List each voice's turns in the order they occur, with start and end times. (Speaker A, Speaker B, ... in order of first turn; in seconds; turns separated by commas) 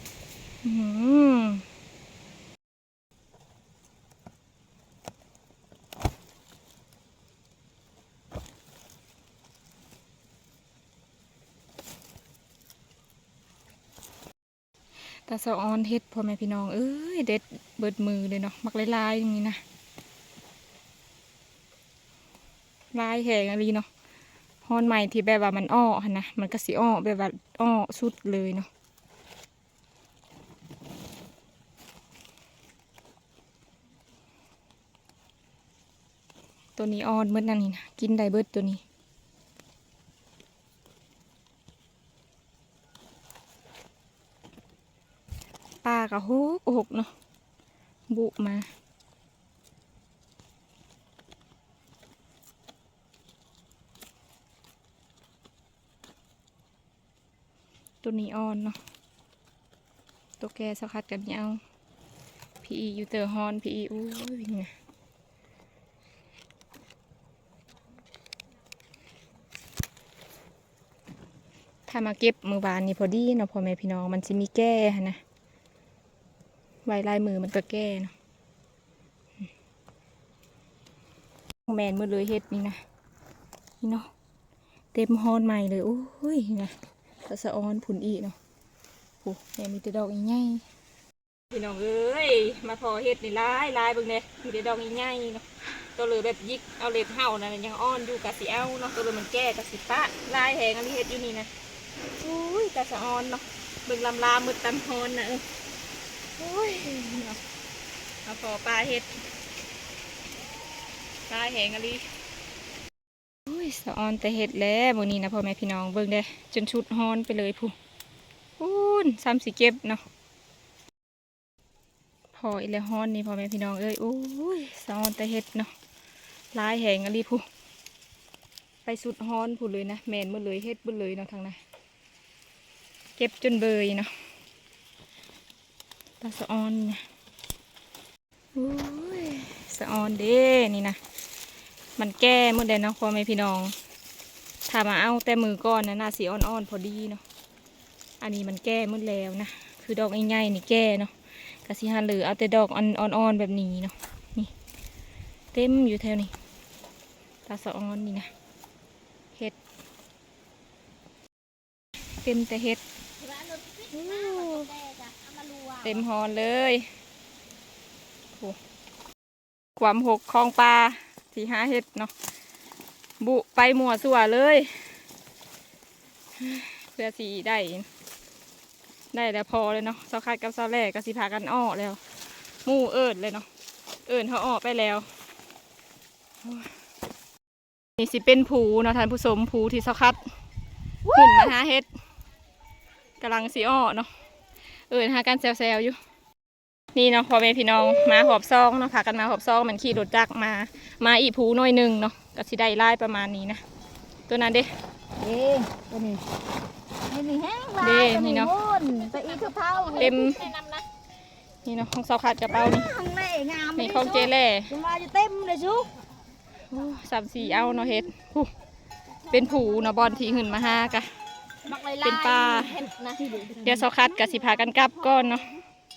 Speaker A: 0.6-1.6, Speaker A: 15.3-19.6, Speaker A: 22.9-23.9, Speaker A: 24.6-28.7, Speaker A: 36.8-38.8, Speaker A: 45.8-47.1, Speaker A: 48.1-48.7, Speaker A: 58.0-58.8, Speaker A: 60.4-61.6, Speaker A: 62.6-64.7, Speaker A: 71.9-75.2, Speaker A: 76.8-78.1, Speaker A: 81.7-82.8, Speaker A: 83.8-84.1, Speaker A: 84.9-86.7, Speaker A: 87.2-88.3, Speaker A: 89.2-90.6, Speaker A: 91.5-101.5, Speaker A: 102.2-105.4, Speaker A: 106.4-107.4, Speaker A: 108.2-109.1, Speaker A: 111.3-112.0, Speaker A: 113.5-117.7, Speaker A: 118.6-120.0, Speaker A: 122.3-125.7, Speaker A: 126.5-127.4, Speaker A: 128.8-131.6, Speaker A: 133.2-134.1, Speaker A: 136.2-137.0, Speaker A: 138.5-141.0, Speaker A: 142.0-143.7, Speaker A: 144.7-147.2, Speaker A: 148.2-151.1, Speaker A: 151.6-154.5, Speaker A: 155.5-156.3, Speaker A: 157.5-158.3, Speaker A: 162.2-162.8, Speaker B: 163.2-166.0, Speaker A: 163.9-164.7, Speaker A: 165.8-166.9, Speaker A: 169.8-172.1, Speaker A: 173.2-174.8, Speaker A: 176.4-177.9, Speaker A: 179.1-182.0, Speaker A: 182.6-183.4, Speaker A: 184.1-185.1, Speaker A: 186.4-186.7, Speaker A: 188.0-190.2, Speaker C: 191.1-191.5, Speaker A: 191.1-191.9, Speaker A: 193.2-194.1, Speaker A: 194.9-195.9, Speaker A: 196.9-203.6, Speaker A: 204.3-204.7, Speaker C: 205.2-206.2, Speaker C: 207.1-210.3, Speaker A: 207.8-208.5, Speaker B: 209.1-210.8, Speaker A: 209.9-210.4, Speaker A: 211.6-212.9, Speaker C: 212.5-215.9, Speaker A: 213.8-214.7, Speaker A: 216.7-218.5, Speaker B: 219.2-221.0, Speaker A: 219.3-221.1, Speaker B: 221.7-223.2, Speaker A: 222.0-222.7, Speaker C: 222.8-223.9, Speaker A: 223.6-225.5, Speaker B: 223.9-225.6